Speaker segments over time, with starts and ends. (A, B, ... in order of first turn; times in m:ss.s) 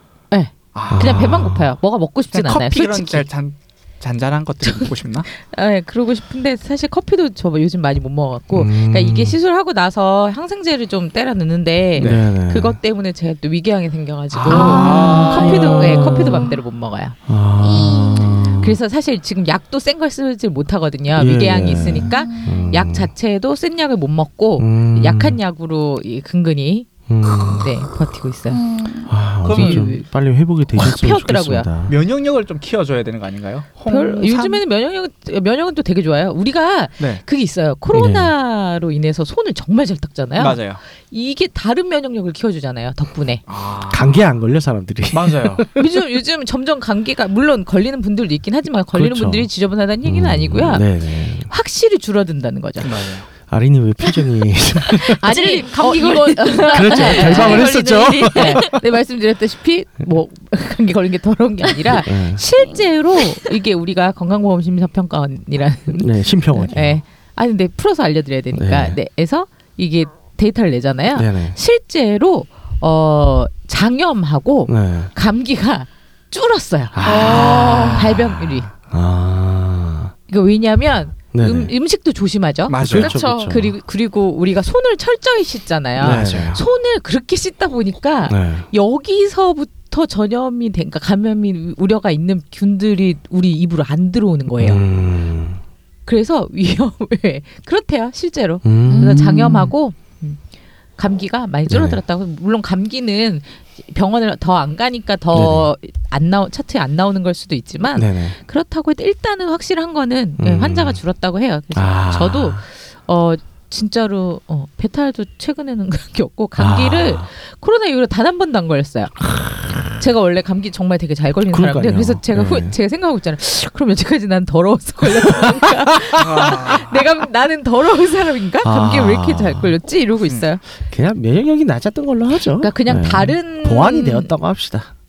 0:00.3-0:03.2 A
0:00.7-0:01.3 B
0:00.9-0:01.7 C
0:02.3-0:05.3 B
0:04.6-0:17.1 A
0:08.5-0:09.4 C
0:12.0-0:12.8 C
0:14.3-0:16.3 B
0:14.5-0:16.5 D
0:15.1-0:16.3 C
0:17.3-0:18.8 C
0:17.6-0:18.6 D
0:18.6-0:26.9 A
0:21.1-0:23.1 C
0:21.9-0:22.6 D
0:24.6-0:25.4 C
0:27.1-0:27.7 C
0:27.5-0:28.6 A
0:28.5-0:29.1 D
0:29.1-0:31.9 C
0:29.4-0:29.9 B
0:29.5-0:30.0 A
0:30.8-0:31.7 A
0:31.9-0:34.6 B
0:33.8-0:43.4 A
0:37.9-0:38.3 C
0:40.4-0:40.8 B
0:43.5-0:44.2 B
0:43.9-0:45.8 C
0:45.1-0:45.7 B
0:45.7-0:53.0 A
0:48.9-0:49.5 C
0:50.0-0:51.5 C
0:52.8-0:53.3 B
0:53.5-0:55.3 C
0:54.9-0:58.8 D
0:55.2-1:18.7 A
0:56.6-0:58.7 C
1:01.9-1:02.4 C
1:05.9-1:07.0 C
1:08.5-1:09.0 C
1:11.1-1:11.6 C
1:14.7-1:15.1 C
1:16.9-1:20.1 C
1:17.0-1:18.1 D
1:17.1-1:18.1 B
1:20.3-1:22.8 A
1:21.3-1:21.7 C
1:22.7-1:23.2 B
1:22.7-1:23.7 C
1:22.9-1:23.5 D
1:23.4-1:34.8 A
1:26.0-1:26.6 C
1:28.3-1:28.7 C
1:34.6-1:35.6 C
1:36.0-1:40.4 A
1:38.6-1:39.6 C
1:38.8-1:39.7 D
1:41.0-1:59.2 A
1:41.7-1:42.0 C
1:45.3-1:45.7 C
1:47.9-1:48.4 C
1:50.4-1:51.0 C
1:51.7-1:52.6 C
1:56.6-1:57.3 C
1:59.9-2:10.6 A
2:01.5-2:02.8 C
2:05.0-2:06.2 C
2:06.1-2:07.0 B
2:08.6-2:09.8 C
2:10.8-2:14.9 C
2:12.5-2:14.3 A